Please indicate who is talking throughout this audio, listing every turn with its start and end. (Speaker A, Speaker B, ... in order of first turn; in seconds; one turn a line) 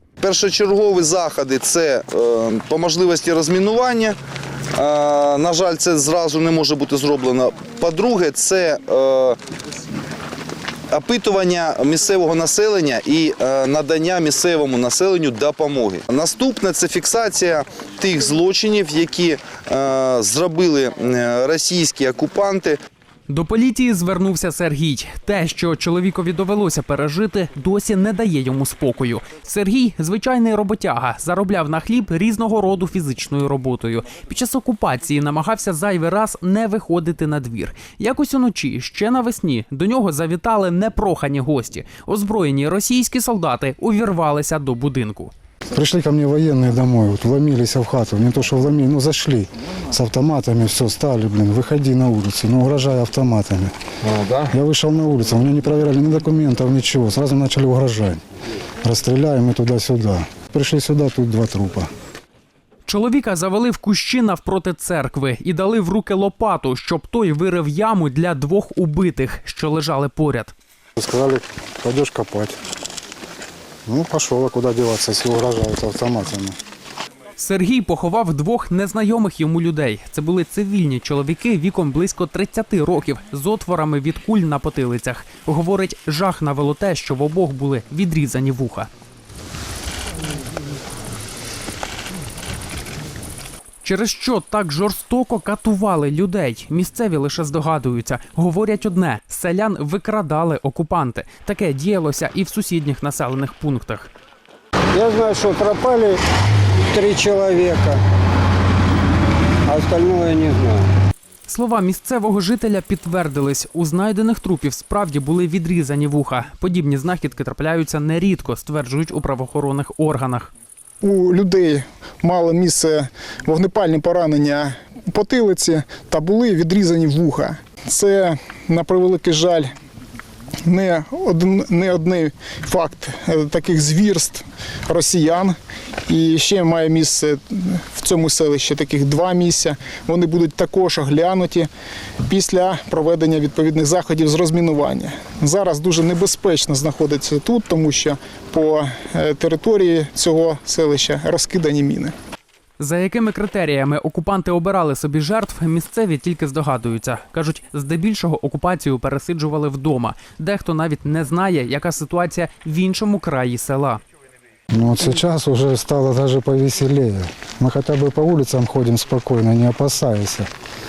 Speaker A: 0.2-4.2
Speaker A: 4.8-9.4
Speaker A: 10.9-22.8
Speaker B: 23.3-45.3
Speaker C: 45.7-53.7
Speaker C: 54.5-58.2
Speaker C: 58.8-61.9
Speaker B: 62.9-70.5
Speaker C: 71.0-72.6
Speaker C: 73.8-76.5
Speaker B: 77.4-88.9
Speaker B: 93.8-104.1
Speaker D: 104.9-106.2
Speaker D: 106.9-108.0
Speaker D: 109.7-110.9
Speaker B: 111.5-120.5
Speaker E: 121.0-129.7
Speaker E: 130.7-135.6
Speaker E: 136.1-141.7
Speaker E: 142.2-152.1
Speaker B: 152.8-164.0
Speaker C: 164.7-170.5